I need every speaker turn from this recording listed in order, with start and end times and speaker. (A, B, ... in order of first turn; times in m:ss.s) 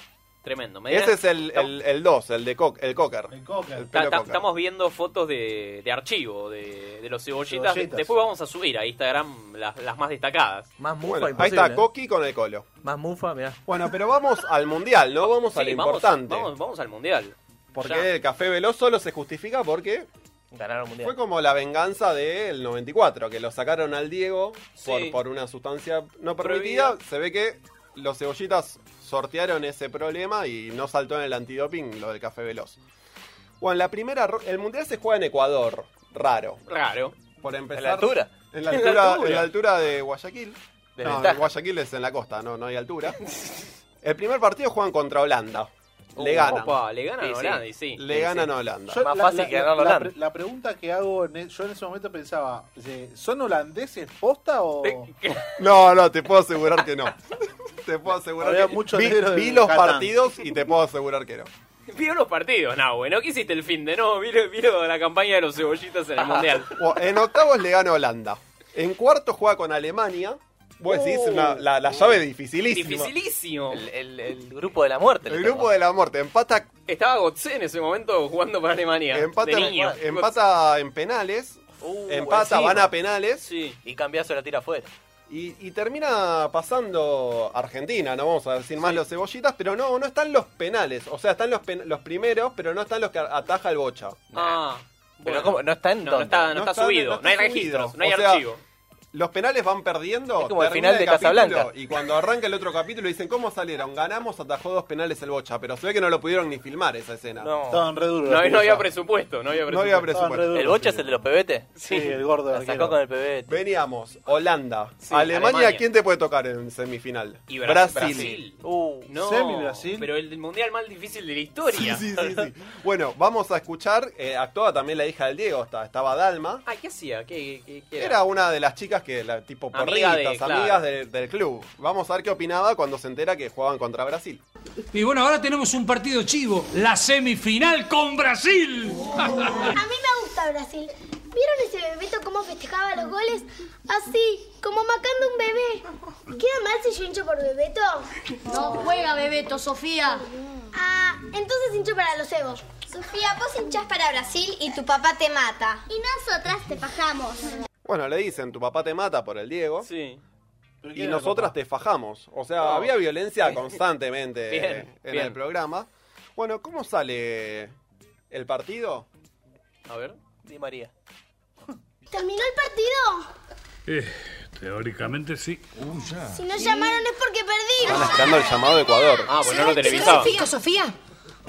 0:00.4-0:01.7 A
0:00.9-0:04.4 B
0:03.3-0:03.9 C
0:03.9-0:10.7 A
0:07.5-0:08.1 C
0:10.8-0:11.9 D
0:11.0-0:12.7 B
0:12.8-0:13.6 D
0:13.7-0:16.5 B
0:15.3-0:18.1 A
0:17.7-0:20.1 B
0:20.5-0:21.2 D
0:21.0-0:32.8 B
0:24.8-0:25.2 A
0:26.4-0:27.0 A
0:33.6-0:36.6 B
0:36.7-0:37.1 A
0:37.4-0:43.2 B
0:37.8-0:38.3 D
0:38.7-0:39.5 A
0:41.0-0:41.5 D
0:44.0-0:46.8 B
0:46.2-0:46.6 D
0:46.2-0:48.5 A
0:47.2-0:47.6 D
0:47.9-0:49.0 B
0:48.9-0:55.1 C
0:49.0-0:50.1 D
0:54.8-0:55.6 A
0:55.6-0:57.2 B
0:57.8-1:01.5 B
0:58.4-1:00.2 C
1:01.9-1:06.7 A
1:06.2-1:06.6 D
1:06.8-1:13.1 B
1:10.9-1:11.2 A
1:12.7-1:13.8 A
1:13.7-1:15.7 D
1:15.3-1:16.7 B
1:16.9-1:20.3 A
1:19.1-1:23.5 B
1:19.5-1:20.0 D
1:21.8-1:22.9 D
1:23.4-1:23.8 A
1:23.8-1:24.9 D
1:25.3-1:34.3 B
1:34.3-1:34.6 D
1:34.3-1:38.6 A
1:35.2-1:36.6 D
1:36.5-1:38.5 B
1:39.1-1:47.5 B
1:40.4-1:41.7 D
1:47.4-1:47.8 D
1:47.7-1:48.9 C
1:48.2-1:50.2 A
1:49.7-1:50.5 B
1:50.0-1:51.2 C
1:50.5-1:51.8 D
1:51.8-1:52.1 A
1:51.8-1:53.0 C
1:52.5-1:53.5 D
1:53.5-1:58.4 B
1:55.0-1:55.8 A
1:57.5-2:02.4 A
1:57.9-1:59.1 D
1:59.2-2:00.1 C
2:01.7-2:06.6 B
2:06.6-2:08.2 A
2:08.0-2:14.4 B
2:09.7-2:10.8 A
2:14.9-2:19.7 E
2:19.8-2:29.2 F
2:28.5-2:30.2 G
2:30.6-2:37.5 F
2:37.8-2:39.9 B
2:39.8-2:40.2 A
2:40.8-2:41.6 C
2:41.0-2:47.7 B
2:42.6-2:42.9 A
2:44.5-2:45.4 A
2:48.3-2:49.1 B
2:49.9-2:50.2 A
2:50.4-2:50.9 D
2:52.1-2:53.3 F
2:56.3-2:58.4 F
2:57.8-2:59.4 B
2:59.3-3:00.3 A
2:59.4-3:00.6 F
2:59.6-3:00.9 G